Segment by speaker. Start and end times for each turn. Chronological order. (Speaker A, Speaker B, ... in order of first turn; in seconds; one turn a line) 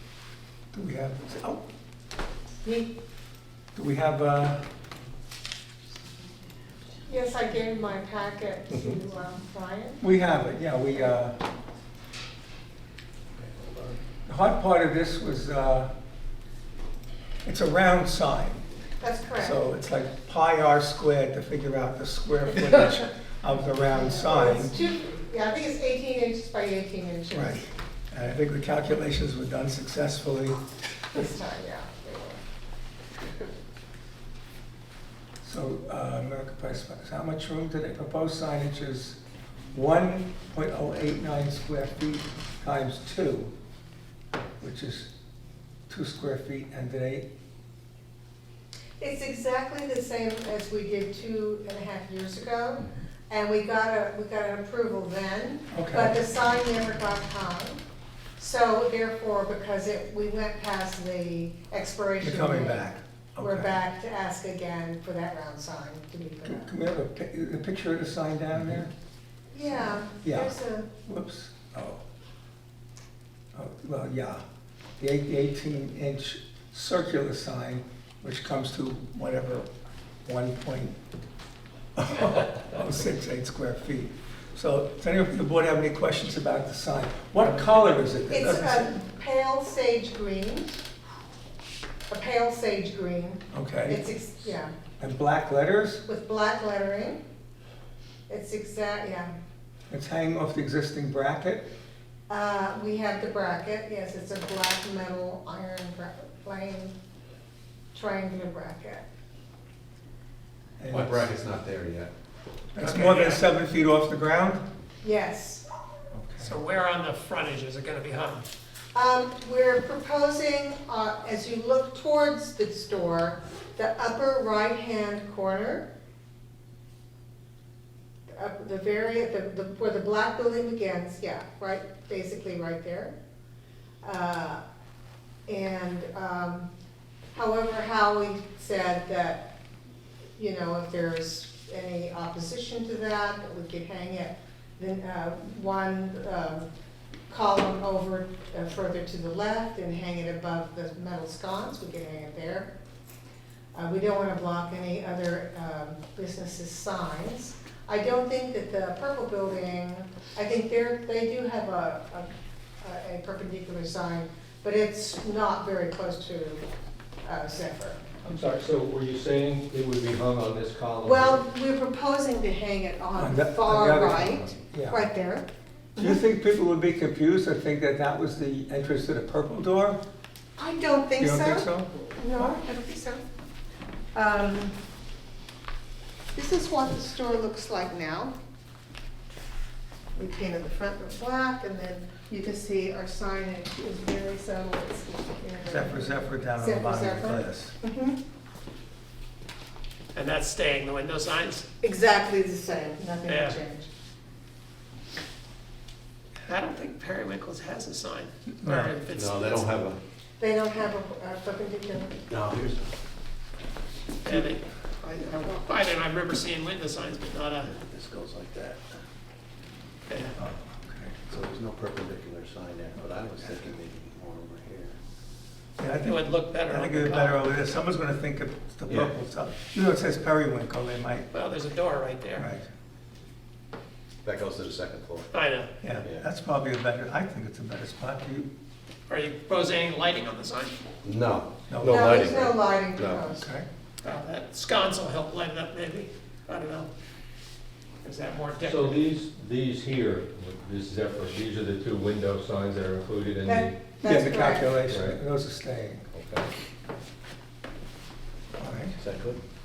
Speaker A: 0.7-1.7
Speaker B: 2.6-2.9
Speaker A: 3.7-4.6
Speaker B: 7.0-10.0
Speaker A: 10.0-11.4
Speaker C: 13.4-13.9
Speaker A: 14.2-15.9
Speaker A: 17.4-18.6
Speaker B: 19.0-19.6
Speaker A: 19.4-24.7
Speaker B: 23.9-27.6
Speaker A: 27.3-30.6
Speaker B: 31.1-32.4
Speaker A: 35.4-39.2
Speaker A: 39.7-43.5
Speaker A: 44.6-45.1
Speaker A: 45.9-47.3
Speaker B: 49.0-57.8
Speaker A: 55.7-56.2
Speaker B: 58.4-62.9
Speaker A: 62.2-63.7
Speaker B: 63.4-66.7
Speaker A: 66.4-68.9
Speaker B: 69.5-70.9
Speaker A: 70.1-72.0
Speaker A: 73.5-74.4
Speaker A: 75.0-79.7
Speaker A: 80.2-81.0
Speaker A: 82.0-88.9
Speaker B: 88.2-90.8
Speaker B: 92.1-94.7
Speaker A: 93.5-94.0
Speaker A: 95.0-96.0
Speaker B: 96.0-97.2
Speaker B: 98.3-99.3
Speaker A: 99.9-101.7
Speaker B: 102.3-106.9
Speaker B: 107.9-109.0
Speaker A: 110.8-111.3
Speaker C: 110.9-112.1
Speaker A: 112.7-114.6
Speaker D: 112.8-113.4
Speaker B: 115.0-115.6
Speaker A: 116.1-116.5
Speaker D: 116.4-118.5
Speaker B: 118.9-125.9
Speaker B: 128.3-133.1
Speaker B: 134.0-134.6
Speaker B: 135.5-136.7
Speaker B: 137.3-139.5
Speaker B: 140.3-146.7
Speaker B: 147.3-152.7
Speaker B: 153.7-162.3
Speaker B: 162.8-166.6
Speaker B: 167.2-168.0
Speaker E: 168.2-171.4
Speaker B: 171.0-176.2
Speaker A: 173.2-175.1
Speaker A: 176.0-180.0
Speaker B: 180.6-183.2
Speaker A: 181.2-182.6
Speaker B: 184.1-184.8
Speaker B: 186.3-188.3
Speaker B: 190.1-198.2
Speaker A: 195.6-197.7
Speaker D: 200.1-201.7
Speaker B: 201.8-203.9
Speaker D: 203.2-203.6
Speaker D: 206.4-209.7
Speaker A: 208.6-208.9
Speaker C: 209.1-210.0
Speaker B: 210.4-212.2
Speaker C: 212.3-212.9
Speaker D: 214.2-214.6
Speaker D: 215.5-217.7
Speaker C: 217.7-219.0
Speaker D: 220.1-220.3
Speaker A: 220.4-221.2
Speaker C: 221.3-224.9
Speaker A: 225.8-231.3
Speaker D: 225.9-227.6
Speaker C: 228.9-229.1
Speaker D: 231.3-232.5
Speaker A: 232.3-232.7
Speaker C: 234.2-235.3
Speaker D: 235.3-235.7
Speaker A: 235.8-238.5
Speaker C: 235.9-236.3
Speaker D: 239.1-240.8
Speaker C: 241.0-243.2
Speaker A: 241.7-242.1
Speaker B: 241.8-243.5
Speaker A: 243.3-243.7
Speaker D: 244.0-246.9
Speaker D: 248.0-249.0
Speaker E: 248.6-253.8
Speaker B: 253.4-254.8
Speaker A: 254.0-256.0
Speaker E: 254.9-255.2
Speaker E: 256.1-256.5
Speaker A: 258.6-259.0
Speaker C: 259.0-259.4